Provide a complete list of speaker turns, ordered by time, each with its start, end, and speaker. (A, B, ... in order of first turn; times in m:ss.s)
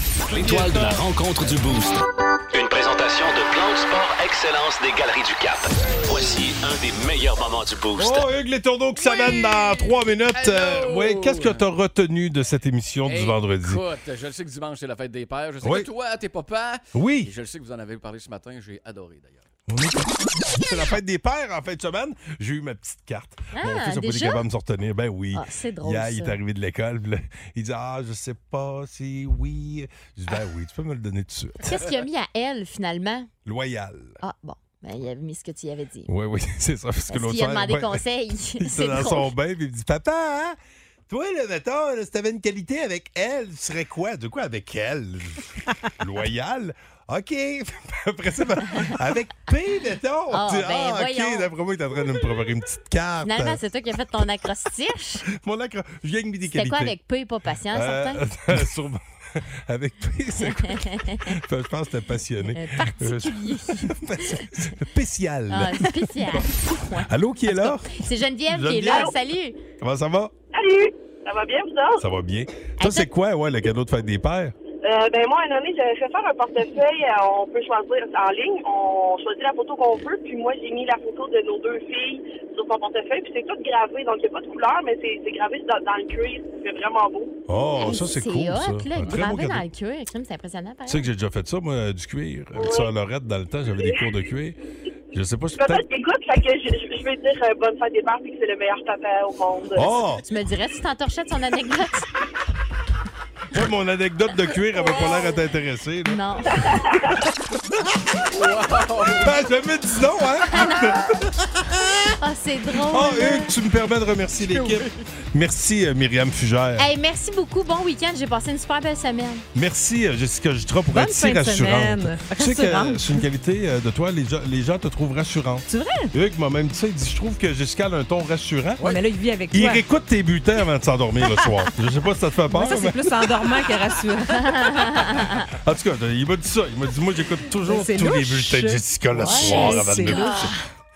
0:00.3-0:08.2 A
0:00.4-0:00.7 B
0:08.0-0:13.8 B
0:09.0-0:09.9 C
0:10.3-0:11.6 D
0:13.1-0:19.4 D
0:15.6-0:15.9 B
0:16.9-0:17.3 B
0:19.7-0:31.8 B
0:23.5-0:24.4 C
0:25.3-0:26.4 C
0:31.6-0:33.3 C
0:33.4-0:34.2 B
0:34.2-0:36.1 C
0:36.1-0:38.0 B
0:37.1-0:39.3 C
0:38.6-0:40.6 B
0:41.1-0:53.6 B
0:50.3-0:51.5 C
0:53.2-0:55.2 C
0:55.3-0:57.0 B
0:56.5-0:58.2 C
0:57.7-1:09.2 B
1:00.4-1:01.3 C
1:02.5-1:04.5 C
1:05.5-1:09.6 C
1:09.8-1:10.3 B
1:10.5-1:12.0 E
1:12.0-1:14.5 B
1:12.8-1:13.1 C
1:14.8-1:27.3 E
1:27.5-1:29.6 B
1:27.8-1:31.1 C
1:30.9-1:34.6 B
1:32.6-1:32.9 E
1:33.7-1:34.0 E
1:35.1-1:35.8 B
1:35.6-1:39.9 E
1:39.7-1:40.2 B
1:40.2-1:42.1 C
1:43.5-1:46.9 B
1:46.0-1:46.8 C
1:46.7-1:47.0 E
1:48.3-1:49.3 D
1:49.1-1:52.0 B
1:50.5-1:51.2 C
1:52.2-1:53.5 C
1:52.9-1:56.9 B
1:56.8-1:59.4 C
1:59.5-2:08.8 B
2:00.9-2:03.2 F
2:05.7-2:06.1 F
2:08.8-2:09.0 D
2:08.8-2:09.8 F
2:09.5-2:13.1 B
2:11.3-2:11.7 F
2:12.5-2:15.0 F
2:14.4-2:15.4 C
2:15.6-2:20.5 B
2:17.6-2:20.5 F
2:19.2-2:20.5 C